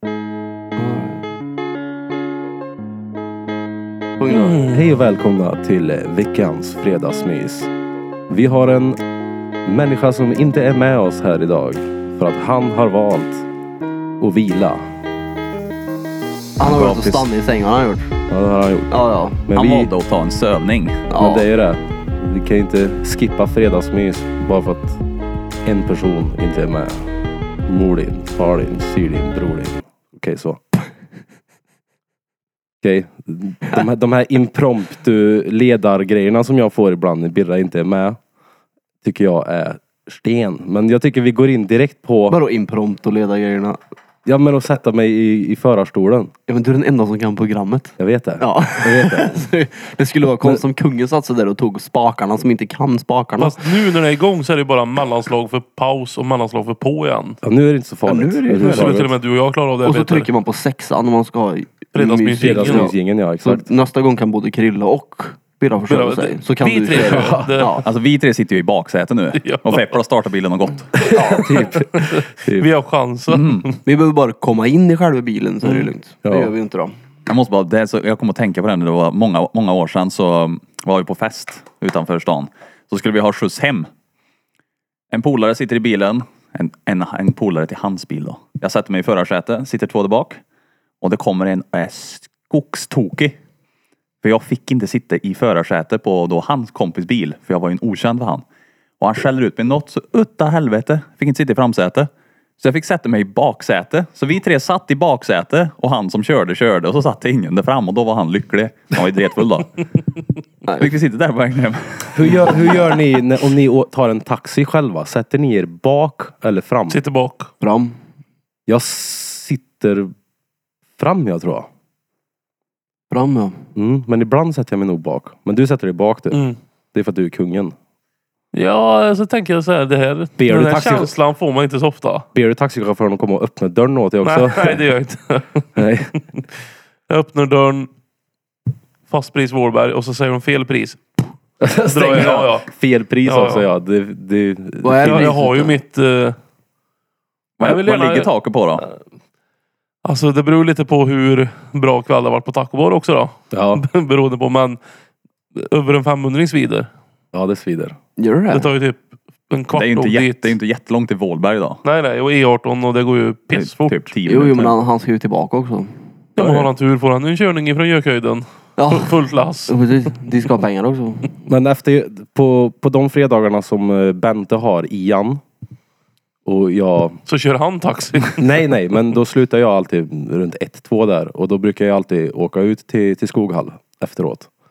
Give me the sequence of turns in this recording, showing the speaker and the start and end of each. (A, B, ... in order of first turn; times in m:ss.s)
0:00.8-0:01.2 A
0:04.2-0:04.6 A
0:04.3-0:04.7 B
0:04.6-0:07.7 C
0:08.3-0:09.0 C
0:09.6-0:13.4 C
0:14.2-0:14.8 C
0:16.6-0:18.1 A
0:16.6-0:17.2 C
0:16.7-0:17.2 D
0:18.3-0:18.9 C
0:18.9-0:19.4 A
0:19.5-0:19.9 C
0:19.5-0:21.1 D
0:21.1-0:21.4 A
0:21.2-0:25.0 C
0:25.6-0:27.0 C
0:27.7-0:30.6 C
0:32.8-0:38.2 C
0:39.0-0:42.4 C
0:42.3-0:43.8 A
0:44.2-0:46.3 C
0:46.5-0:53.6 A
0:48.0-0:49.3 C
0:53.4-0:57.4 B
0:57.4-0:59.1 C
0:58.0-0:59.0 A
0:58.6-1:00.3 B
0:59.8-1:07.8 A
1:01.9-1:02.9 B
1:02.4-1:03.7 C
1:05.9-1:07.8 B
1:07.0-1:07.6 C
1:07.8-1:11.1 D
1:09.3-1:09.9 B
1:11.0-1:12.7 C
1:11.2-1:13.8 B
1:13.3-1:13.7 D
1:13.8-1:16.9 A
1:16.2-1:16.5 C
1:17.3-1:23.8 D
1:25.1-1:30.4 D
1:31.0-1:33.4 D
1:34.2-1:38.4 D
1:39.0-1:42.1 D
1:42.6-1:49.8 D
1:50.6-1:50.9 A
1:50.8-1:52.8 D
1:52.1-1:57.0 C
1:56.9-1:57.5 B
1:57.6-1:57.9 A
1:58.7-2:00.1 C
2:01.0-2:01.7 C
2:03.1-2:03.6 A
2:03.7-2:07.7 C
2:06.3-2:06.6 B
2:08.5-2:12.2 B
2:10.4-2:11.1 C
2:12.3-2:14.8 C
2:14.2-2:16.2 B
2:15.8-2:16.2 C
2:17.1-2:17.9 B
2:19.1-2:21.2 B
2:21.6-2:25.4 C
2:21.8-2:22.7 B
2:23.2-2:23.7 B
2:24.8-2:25.8 A
2:25.0-2:26.4 B
2:27.6-2:28.8 D
2:27.6-2:28.3 B
2:30.0-2:34.8 B
2:33.5-2:33.8 C
2:35.5-2:36.9 B
2:37.3-2:38.0 C
2:38.2-2:38.7 A
2:38.5-2:40.6 B
2:39.7-2:41.8 D
2:41.8-2:44.1 B
2:43.5-2:44.8 D
2:44.2-2:45.9 A
2:46.4-2:49.7 B
2:48.8-2:49.2 A
2:49.7-2:51.3 A
2:51.5-2:55.4 C
2:56.4-2:57.2 C
2:57.3-2:58.7 B
2:58.4-3:04.5 C